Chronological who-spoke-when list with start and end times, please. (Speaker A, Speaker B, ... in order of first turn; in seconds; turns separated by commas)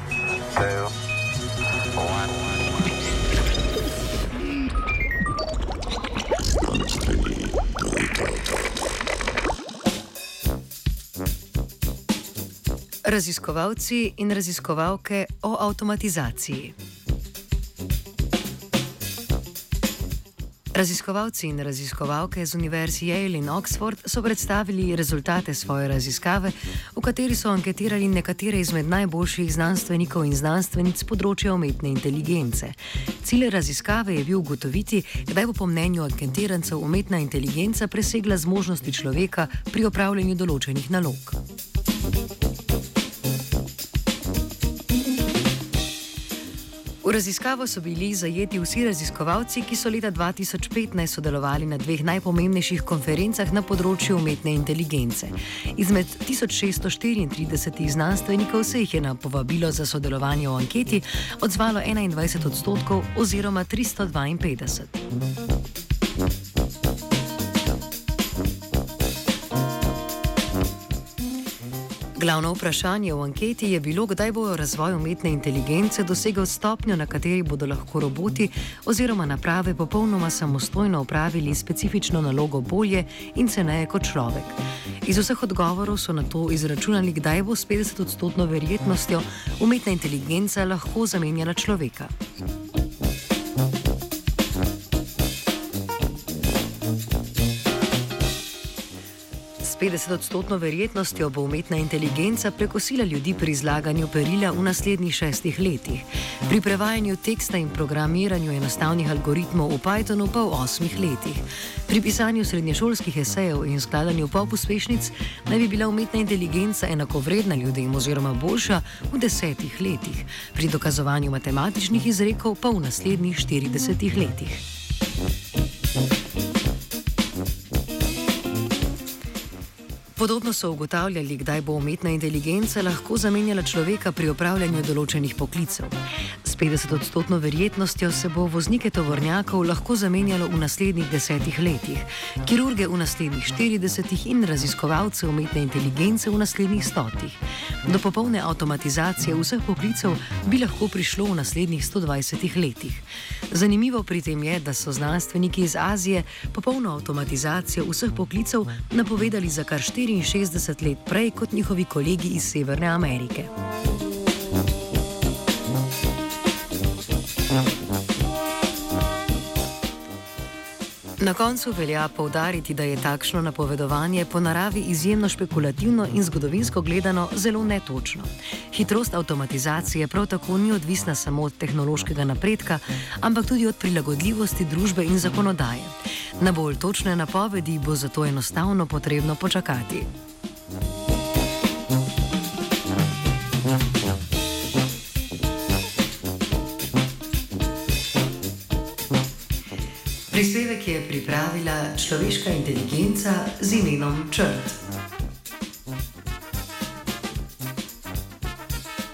Speaker A: 13.0-16.8, Speaker A: 20.7-41.4, Speaker A: 47.0-65.0, Speaker A: 72.2-92.1, Speaker A: 99.6-124.6, Speaker A: 130.2-163.5, Speaker A: 171.2-190.1, Speaker A: 200.3-204.8